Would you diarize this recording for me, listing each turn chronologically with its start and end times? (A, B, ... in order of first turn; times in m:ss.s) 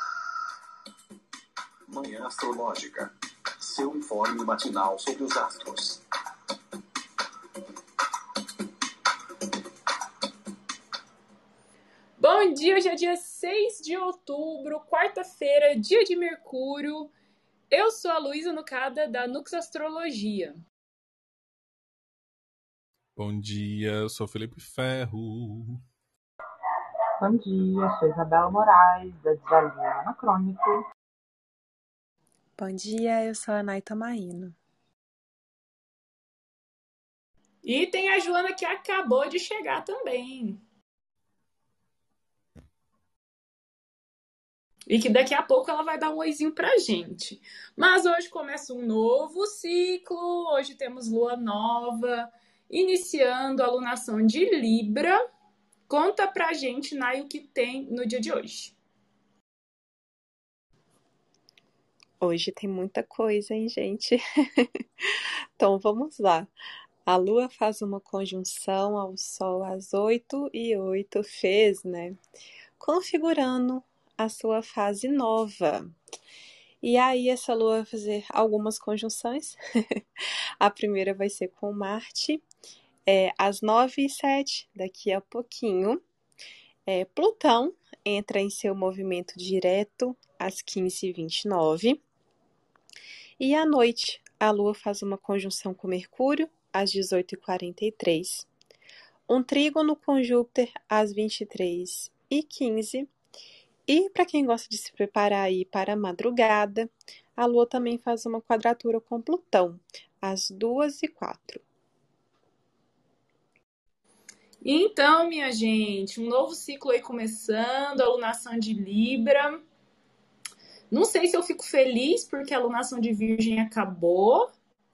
0:01.9-0:06.0 A
0:12.2-0:17.1 B
0:17.7-0:20.6 B
0:23.2-0:25.8 C
0:27.2-0:30.8 D
0:32.6-0:34.6 E
0:37.6-0:40.6 B
0:44.9-0:55.2 B
0:55.9-0:58.7 B
1:02.2-1:06.5 E
1:07.1-1:12.2 E
1:12.8-1:15.9 E
1:16.8-1:22.4 E
1:23.1-1:26.0 E
1:26.8-1:32.0 E
1:33.4-1:38.5 E
1:39.3-1:43.1 E
1:43.9-1:51.6 E
1:54.6-1:59.6 B
2:00.9-2:04.5 B